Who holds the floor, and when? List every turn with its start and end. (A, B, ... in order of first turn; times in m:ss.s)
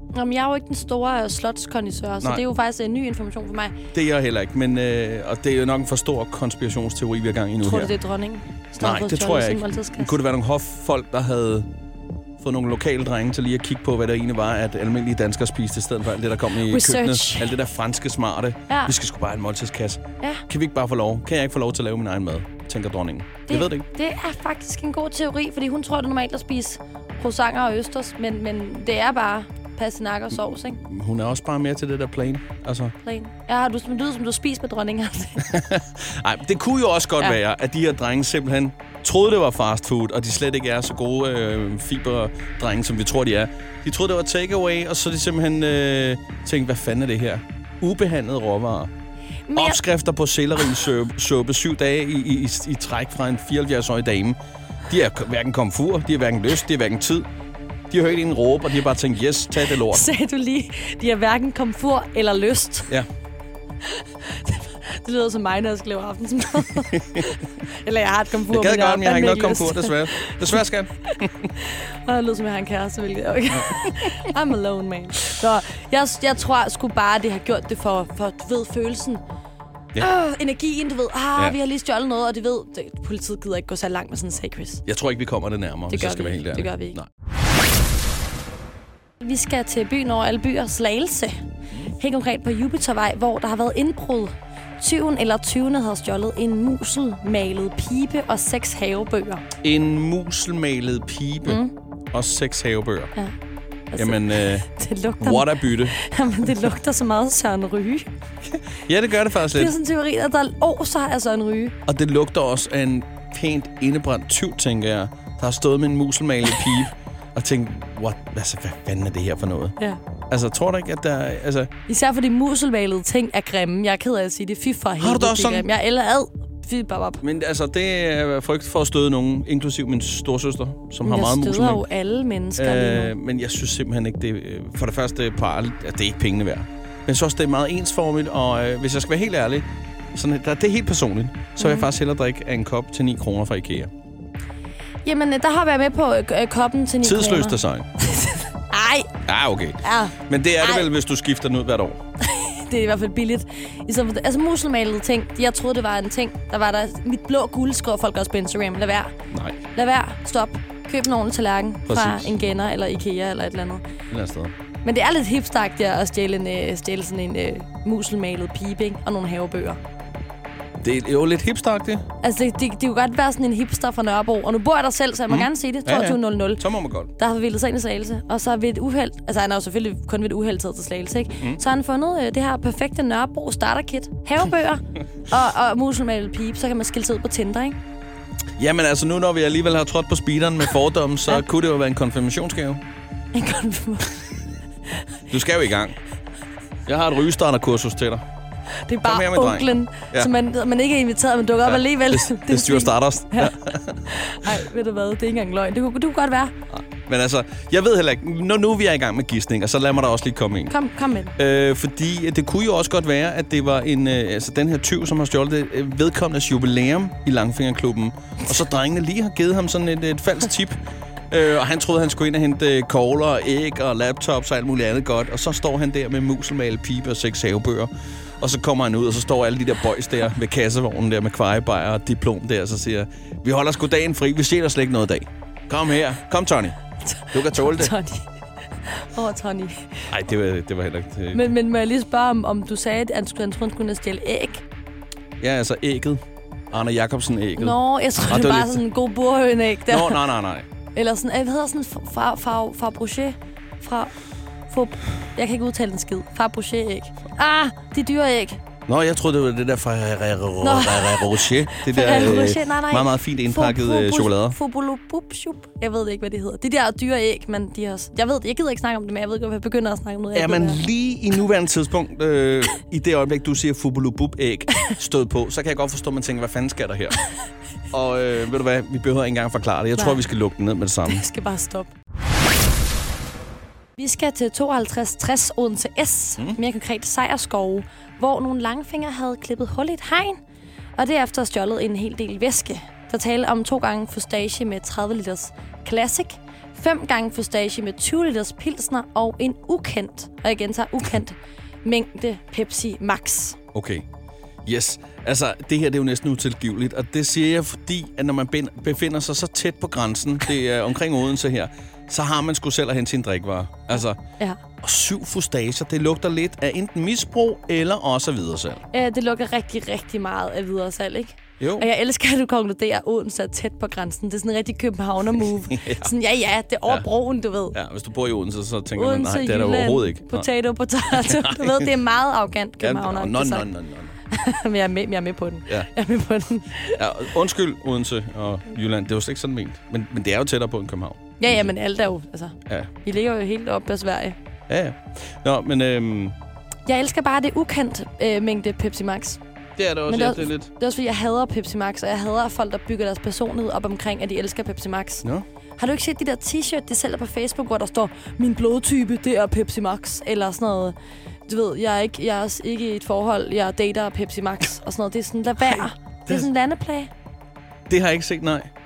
0:00.1-0:03.8 A
0:03.9-0:07.9 B
0:07.6-0:10.2 A
0:08.8-0:11.7 B
0:12.4-0:23.8 B
0:16.6-0:17.5 A
0:18.7-0:18.9 A
0:20.2-0:20.4 A
0:23.5-0:30.8 A
0:30.6-0:32.9 B
0:33.0-0:35.5 A
0:35.4-0:48.9 B
0:49.5-0:49.8 A
0:49.6-0:54.4 B
0:54.9-0:57.2 B
0:57.9-1:00.1 B
0:59.6-1:02.9 A
1:03.8-1:10.6 A
1:06.9-1:07.3 B
1:08.5-1:11.5 B
1:11.6-1:19.2 A
1:13.5-1:14.2 B
1:20.0-1:24.8 A
1:24.8-1:27.1 B
1:25.9-1:27.0 A
1:29.2-1:39.4 A
1:39.6-1:43.1 B
1:41.5-1:41.7 A
1:43.9-1:48.1 A
1:44.0-1:44.7 B
1:45.2-1:46.0 B
1:48.7-1:49.8 B
1:49.5-1:51.8 A
1:51.8-1:59.8 B
2:00.3-2:01.7 B
2:01.9-2:07.2 A
2:05.0-2:05.7 B
2:07.2-2:11.8 B
2:11.0-2:13.1 A
2:12.6-2:23.9 B
2:21.6-2:21.9 A
2:25.0-2:29.1 A
2:27.0-2:27.9 B
2:29.2-2:32.0 B
2:29.8-2:30.9 A
2:32.2-2:39.1 A
2:39.3-2:39.6 B
2:39.7-2:43.8 A
2:41.9-2:42.4 B
2:44.1-2:44.5 B
2:44.8-2:49.8 A
2:50.8-2:52.0 B
2:52.2-2:56.6 A
2:55.3-2:57.1 B
2:57.2-3:07.8 A
3:08.6-3:12.8 B
3:13.3-3:14.2 A
3:15.3-3:16.0 B
3:16.9-3:18.2 B
3:18.8-3:26.5 A
3:19.0-3:20.3 B
3:21.7-3:24.0 B
3:26.7-3:30.7 B
3:30.7-3:31.4 A
3:31.4-3:40.8 B
3:41.3-3:56.8 B
3:57.0-3:58.2 A
3:57.3-3:57.9 B
3:58.8-4:00.0 A
4:00.1-4:01.5 B
4:01.3-4:04.6 A
4:05.4-4:08.8 B
4:07.6-4:10.2 A
4:09.9-4:10.7 B
4:10.9-4:14.1 A
4:14.7-4:18.6 A
4:18.9-4:24.6 B
4:20.6-4:30.8 A
4:30.4-4:37.2 B
4:37.9-4:41.2 B
4:40.0-4:40.2 A
4:41.0-4:41.9 A
4:44.0-4:50.4 A
4:51.0-5:03.6 A
5:03.7-5:04.0 B
5:04.6-5:14.2 B
5:14.8-5:18.8 B
5:18.9-5:27.8 A
5:21.6-5:21.9 B
5:25.4-5:26.1 B
5:27.7-5:30.5 B
5:28.9-5:33.7 A
5:31.1-5:31.9 B
5:32.8-5:34.2 B
5:34.3-5:37.1 A
5:37.0-5:41.7 B
5:41.4-5:44.4 A
5:44.7-5:46.4 B
5:46.9-5:49.4 A
5:49.8-5:50.7 B
5:50.1-5:55.2 A
5:55.8-6:00.9 A
6:01.4-6:07.1 A
6:05.6-6:06.5 B
6:07.9-6:08.7 B